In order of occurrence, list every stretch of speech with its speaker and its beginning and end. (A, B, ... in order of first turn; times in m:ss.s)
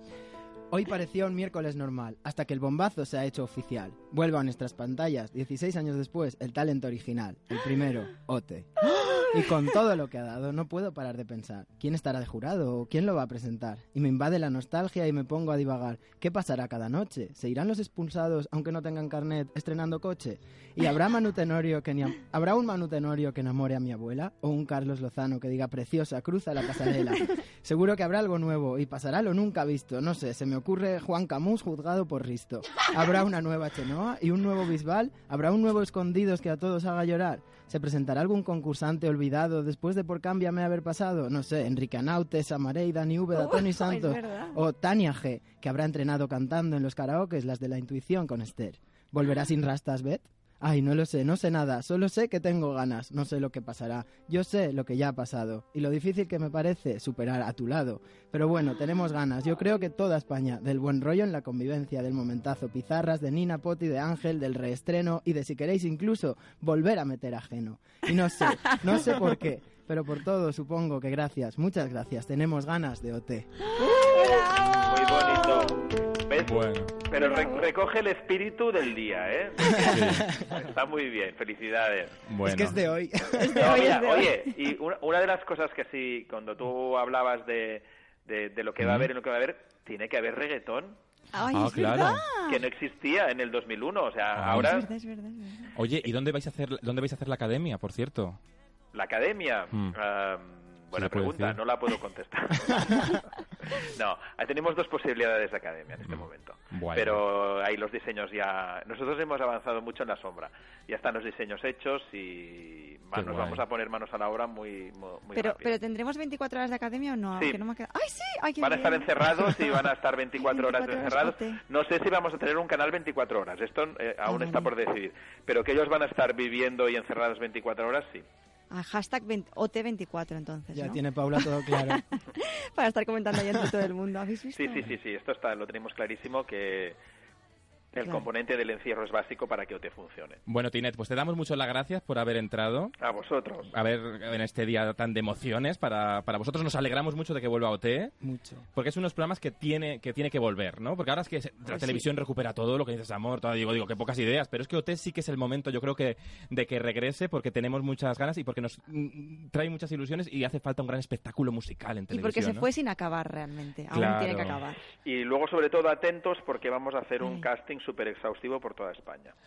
0:00.7-1:13.5 A
0:09.0-0:09.2 B
0:43.3-0:44.6 B
1:13.8-1:15.7 B
1:14.8-1:22.2 C
1:16.4-1:16.9 D
1:17.1-1:17.7 B
1:19.8-1:20.3 D
1:19.9-1:20.3 A
1:22.3-1:22.8 D
1:22.4-1:24.0 A
1:23.4-1:24.5 B
1:23.6-1:31.0 C
1:28.8-1:29.1 D
1:31.3-1:32.6 B
1:31.5-1:32.3 D
1:32.4-1:34.9 C
1:34.4-1:34.7 D
1:34.5-1:35.7 B
1:35.8-1:38.4 D
1:38.9-1:55.8 C
1:41.0-1:41.6 D
1:46.1-1:47.2 D
1:53.2-1:53.6 D
1:55.4-1:59.8 B
1:58.6-2:08.2 C
2:00.4-2:01.6 B
2:04.3-2:04.7 B
2:08.7-2:14.9 B
2:10.7-2:12.0 A
2:14.5-2:17.0 C
2:17.9-2:20.4 C
2:18.0-2:18.2 B
2:20.5-2:23.0 D
2:23.0-2:23.7 C
2:23.7-2:28.1 D
2:28.2-2:28.6 A
2:28.8-2:42.7 D
2:31.7-2:32.0 B
2:42.1-2:44.8 B
2:43.9-2:44.6 D
2:45.0-2:49.3 C